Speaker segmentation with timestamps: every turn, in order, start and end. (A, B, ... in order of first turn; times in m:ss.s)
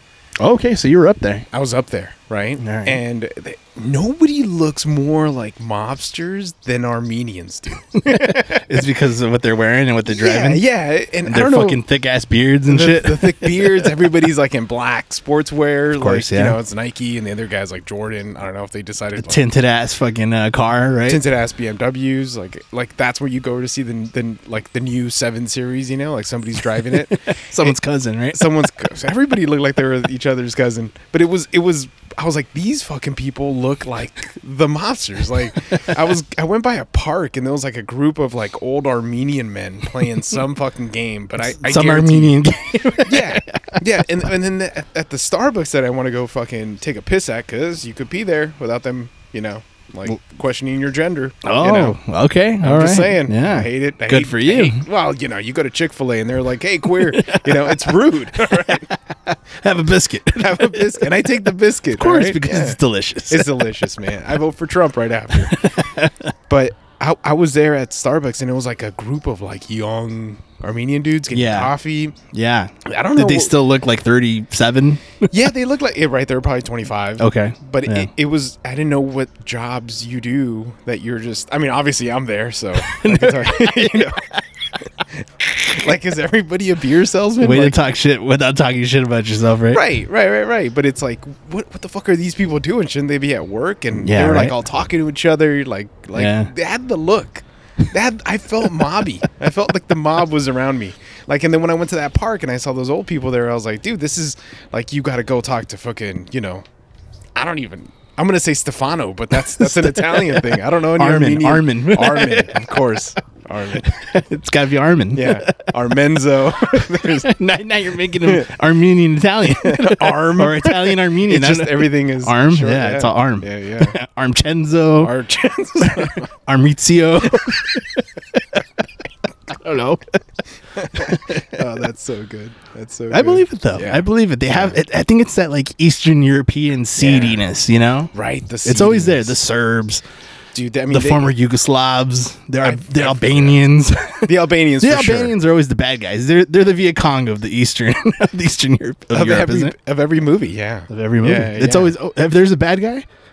0:00.4-0:01.5 A
0:01.5-0:08.8 B
0:02.6-0:03.0 A
0:07.9-0:10.7 A
0:10.1-0:11.8 B
0:11.2-0:13.9 A
0:12.7-0:19.4 B
0:16.0-0:16.6 A
0:19.2-0:21.2 A
0:21.1-0:27.8 B
0:26.8-0:28.5 A
0:28.3-0:42.4 B
0:41.4-0:43.8 A
0:43.0-0:52.0 B
0:51.4-0:54.8 A
0:52.6-0:58.9 B
0:56.9-1:03.7 A
1:00.3-1:02.8 B
1:03.3-1:05.9 B
1:05.3-1:06.3 A
1:06.5-1:12.2 B
1:11.3-1:15.4 A
1:12.8-1:13.5 B
1:15.3-1:24.3 B
1:17.2-1:18.1 A
1:22.8-1:24.4 A
1:24.8-1:27.8 B
1:25.4-1:25.9 A
1:27.4-1:29.8 A
1:29.7-1:46.6 B
1:34.0-1:34.5 A
1:36.2-1:36.5 A
1:47.3-1:53.9 B
1:49.5-1:53.0 A
1:53.8-1:56.0 A
1:55.1-1:57.3 B
1:56.5-2:05.1 A
1:58.2-1:58.5 B
1:59.5-2:04.0 B
2:05.0-2:06.3 B
2:05.8-2:08.6 A
2:07.3-2:07.9 B
2:09.5-2:10.2 A
2:10.7-2:14.8 B
2:10.9-2:11.6 A
2:13.1-2:18.1 A
2:17.0-2:17.4 B
2:18.1-2:19.4 B
2:18.6-2:20.0 A
2:20.5-2:21.3 B
2:20.9-2:29.7 A
2:22.6-2:23.6 B
2:24.2-2:25.3 B
2:29.1-2:31.9 B
2:30.9-2:33.0 A